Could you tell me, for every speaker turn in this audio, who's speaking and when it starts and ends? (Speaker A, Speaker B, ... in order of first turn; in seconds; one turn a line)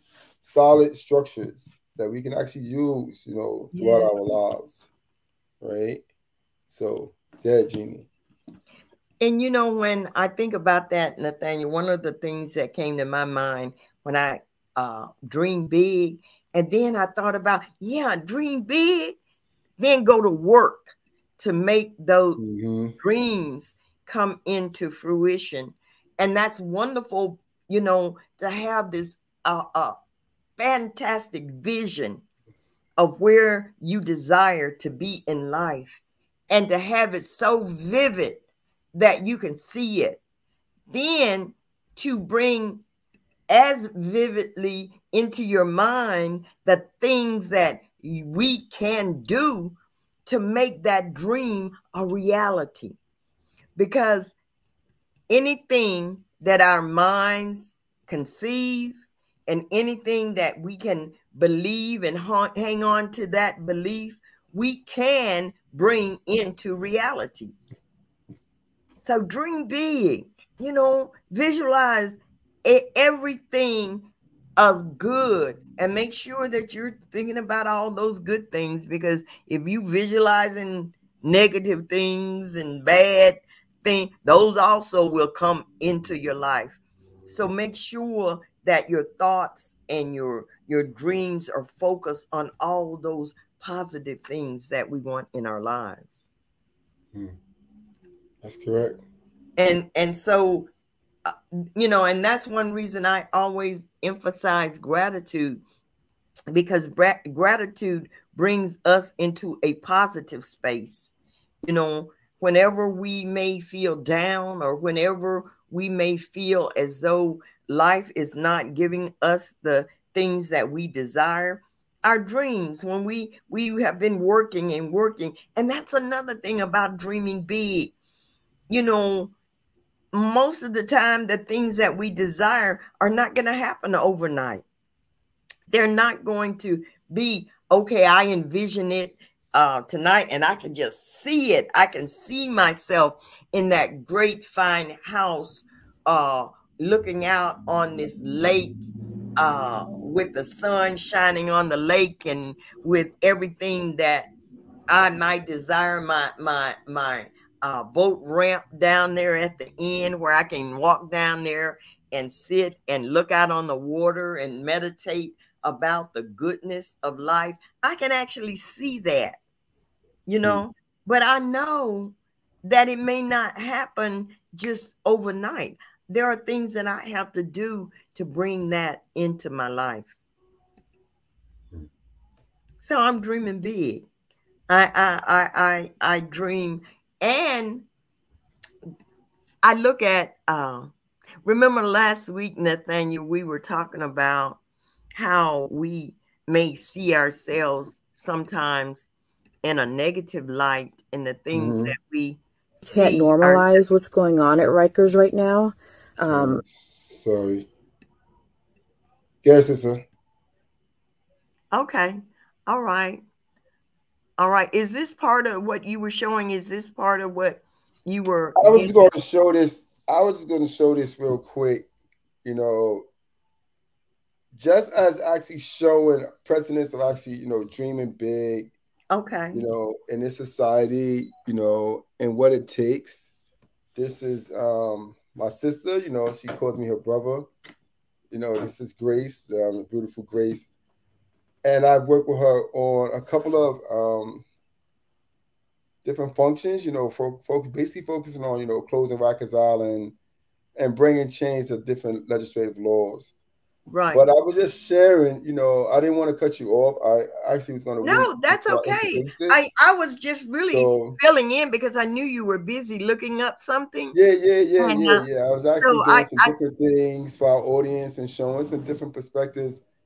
Speaker A: 0.4-4.9
Speaker B: 3.7-4.2
Speaker A: 5.6-6.0
Speaker A: 6.7-8.1
Speaker B: 9.2-19.2
Speaker B: 19.8-22.4
Speaker A: 22.4-22.9
Speaker B: 23.0-30.0
Speaker B: 30.6-32.2
Speaker B: 33.0-38.4
Speaker B: 38.9-40.2
Speaker B: 40.9-42.8
Speaker B: 43.5-49.7
Speaker B: 50.2-53.0
Speaker B: 53.8-54.3
Speaker B: 55.3-67.5
Speaker B: 69.0-96.3
Speaker A: 98.4-99.0
Speaker B: 99.6-100.7
Speaker B: 101.2-105.6
Speaker B: 106.5-111.1
Speaker B: 111.6-127.9
Speaker B: 128.7-129.3
Speaker B: 130.1-134.6
Speaker B: 135.7-148.8
Speaker B: 149.3-154.3
Speaker B: 154.9-169.4
Speaker B: 170.3-180.1
Speaker B: 182.8-184.0
Speaker B: 184.7-187.8
Speaker B: 189.6-190.9
Speaker B: 191.4-194.6
Speaker B: 195.1-199.1
Speaker B: 199.6-203.8
Speaker A: 201.5-201.9
Speaker C: 202.8-206.6
Speaker A: 206.3-207.7
Speaker A: 209.4-210.0
Speaker B: 211.7-213.2
Speaker B: 214.4-219.1
Speaker A: 218.6-221.9
Speaker A: 222.4-223.1
Speaker A: 224.5-228.7
Speaker B: 229.1-229.6
Speaker A: 229.5-233.3
Speaker A: 233.9-237.5
Speaker A: 238.3-240.7
Speaker A: 241.6-244.4
Speaker A: 246.0-250.1
Speaker A: 250.8-253.3
Speaker B: 253.9-254.2
Speaker A: 254.1-259.7
Speaker B: 258.0-264.1
Speaker A: 260.7-261.2
Speaker A: 264.1-269.8
Speaker B: 264.8-265.2
Speaker B: 265.8-266.5